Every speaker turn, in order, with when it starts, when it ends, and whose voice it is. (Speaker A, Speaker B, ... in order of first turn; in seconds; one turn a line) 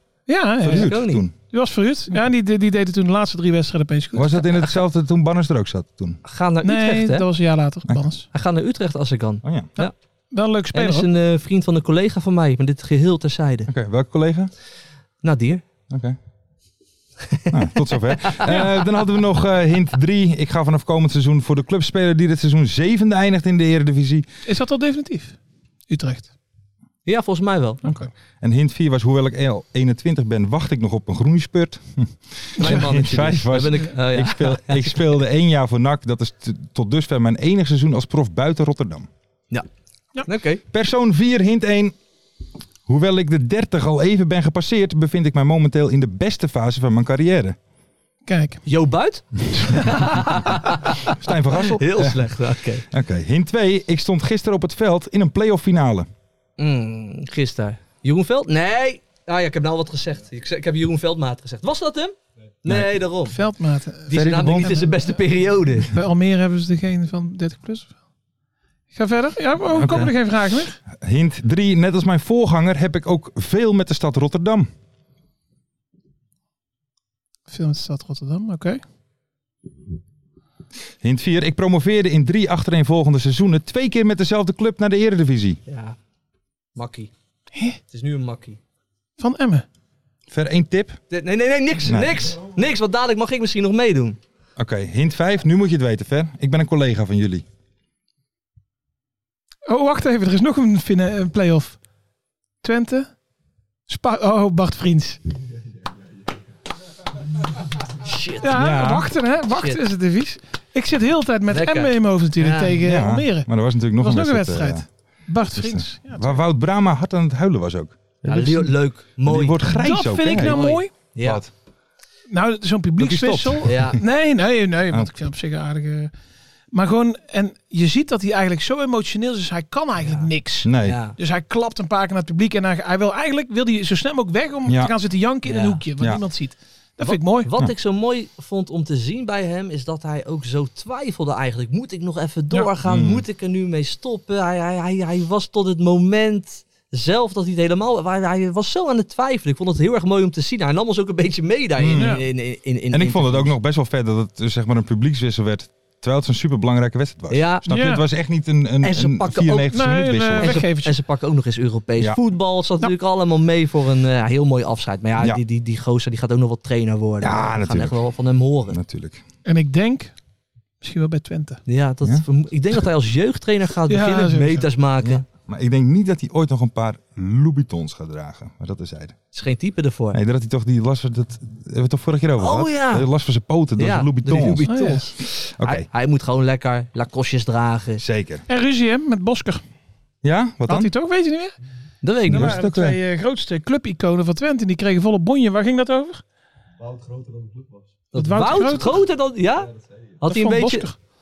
Speaker A: 0.3-0.9
Speaker B: 0.6-1.3
Speaker C: 0.7-1.2
Speaker A: 1.5-4.5
Speaker B: 4.1-6.2
Speaker C: 6.2-7.3
Speaker A: 6.6-8.3
Speaker C: 8.3-9.9
Speaker B: 9.4-9.7
Speaker A: 9.8-11.1
Speaker C: 10.7-13.7
Speaker B: 13.7-14.5
Speaker C: 15.2-15.6
Speaker B: 15.9-16.2
Speaker C: 17.3-18.6
Speaker B: 17.5-24.3
Speaker A: 24.5-25.4
Speaker A: 25.9-26.3
Speaker C: 27.1-27.8
Speaker A: 27.8-28.1
Speaker B: 28.4-39.1
Speaker C: 32.6-35.1
Speaker C: 40.2-40.6
Speaker B: 40.7-42.0
Speaker B: 42.9-47.6
Speaker A: 48.3-48.6
Speaker C: 48.7-52.9
Speaker B: 51.1-52.3
Speaker B: 52.9-56.1
Speaker C: 56.6-63.4
Speaker B: 62.7-63.0
Speaker A: 63.3-65.1
Speaker C: 64.1-65.9
Speaker B: 64.1-64.8
Speaker A: 65.8-67.9
Speaker A: 68.9-70.8
Speaker B: 69.7-70.1
Speaker B: 70.9-74.7
Speaker A: 77.5-78.8
Speaker B: 81.0-85.6
Speaker C: 85.7-86.0
Speaker C: 86.8-87.1
Speaker C: 87.9-88.6
Speaker A: 89.2-89.7
Speaker B: 90.3-91.0
Speaker C: 91.1-94.2
Speaker B: 91.9-92.2
Speaker B: 94.6-97.5
Speaker A: 99.7-101.8
Speaker A: 102.6-103.1
Speaker A: 103.9-105.2
Speaker C: 108.0-108.6
Speaker A: 108.4-113.5
Speaker B: 108.5-109.1
Speaker C: 109.5-109.8
Speaker C: 111.5-112.8
Speaker B: 112.8-114.8
Speaker A: 114.0-116.4
Speaker B: 115.5-120.6
Speaker C: 118.3-119.6
Speaker A: 119.8-120.9
Speaker C: 120.4-121.4
Speaker B: 121.2-121.5
Speaker A: 122.3-126.1
Speaker B: 123.0-123.8
Speaker C: 123.7-124.0
Speaker A: 126.7-137.5
Speaker C: 130.0-130.3
Speaker B: 130.6-131.0
Speaker C: 130.8-131.1
Speaker B: 134.7-134.9
Speaker C: 135.4-135.8
Speaker C: 137.0-153.5
Speaker B: 142.8-143.2
Speaker B: 151.8-152.2
Speaker A: 151.9-152.2
Speaker B: 152.9-160.6
Speaker C: 157.3-157.7
Speaker A: 157.7-158.0
Speaker C: 158.8-159.8
Speaker A: 159.7-160.9
Speaker C: 160.4-168.8
Speaker B: 167.2-168.0
Speaker B: 168.7-169.2
Speaker A: 169.4-170.1
Speaker A: 170.8-171.6
Speaker C: 171.7-175.2
Speaker A: 173.9-174.7
Speaker B: 175.0-179.2
Speaker C: 179.3-180.2
Speaker B: 180.1-184.7
Speaker C: 182.4-183.1
Speaker C: 183.8-188.0
Speaker A: 184.7-185.0
Speaker B: 185.6-185.9
Speaker B: 188.0-188.4
Speaker A: 188.5-189.6
Speaker B: 190.2-190.9
Speaker A: 190.7-191.6
Speaker C: 192.0-192.6
Speaker B: 192.3-193.0
Speaker A: 192.3-196.2
Speaker C: 198.1-200.9
Speaker A: 198.2-199.0
Speaker A: 200.2-200.9